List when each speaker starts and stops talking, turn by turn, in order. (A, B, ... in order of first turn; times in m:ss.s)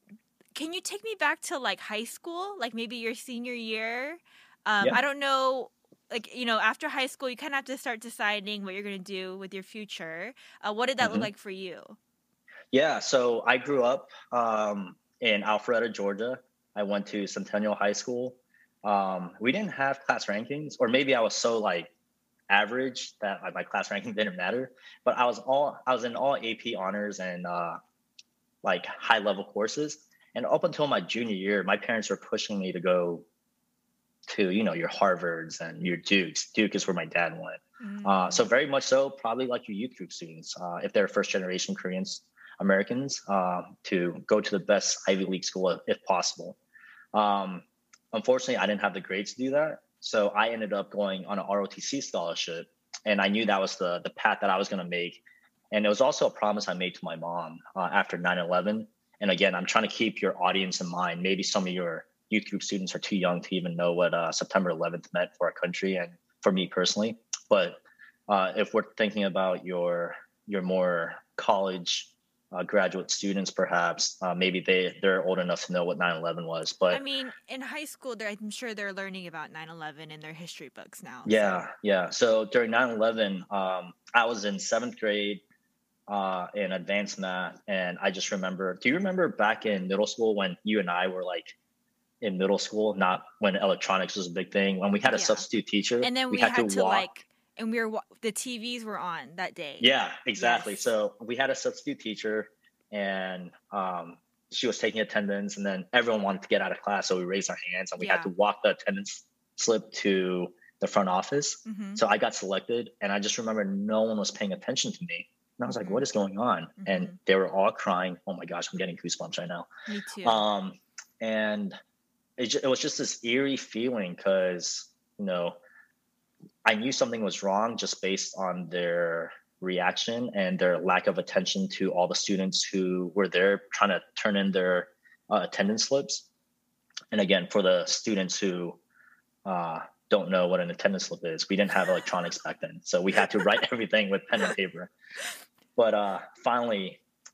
0:00.5-0:12.0 A
0:11.0-0:11.3 B
0:12.7-0:21.9 B
0:22.5-0:27.8 B
0:28.6-0:33.2 B
0:34.3-0:46.6 B
0:37.8-0:38.4 A
0:47.1-1:17.0 B
1:16.9-1:21.7 A
1:21.2-1:25.4 B
1:26.1-1:31.5 B
1:32.2-1:37.1 B
1:35.1-1:35.4 A
1:36.0-1:40.8 A
1:39.8-1:59.7 B
1:48.0-1:48.3 A
1:51.6-1:52.0 A
1:55.7-1:56.0 A
1:56.8-1:57.2 A
1:59.9-2:00.4 A
2:00.2-2:01.8 B
2:02.4-2:05.6 B
2:06.6-2:16.3 B
2:17.1-2:18.8 B
2:19.4-2:24.9 B
2:25.8-2:27.0 B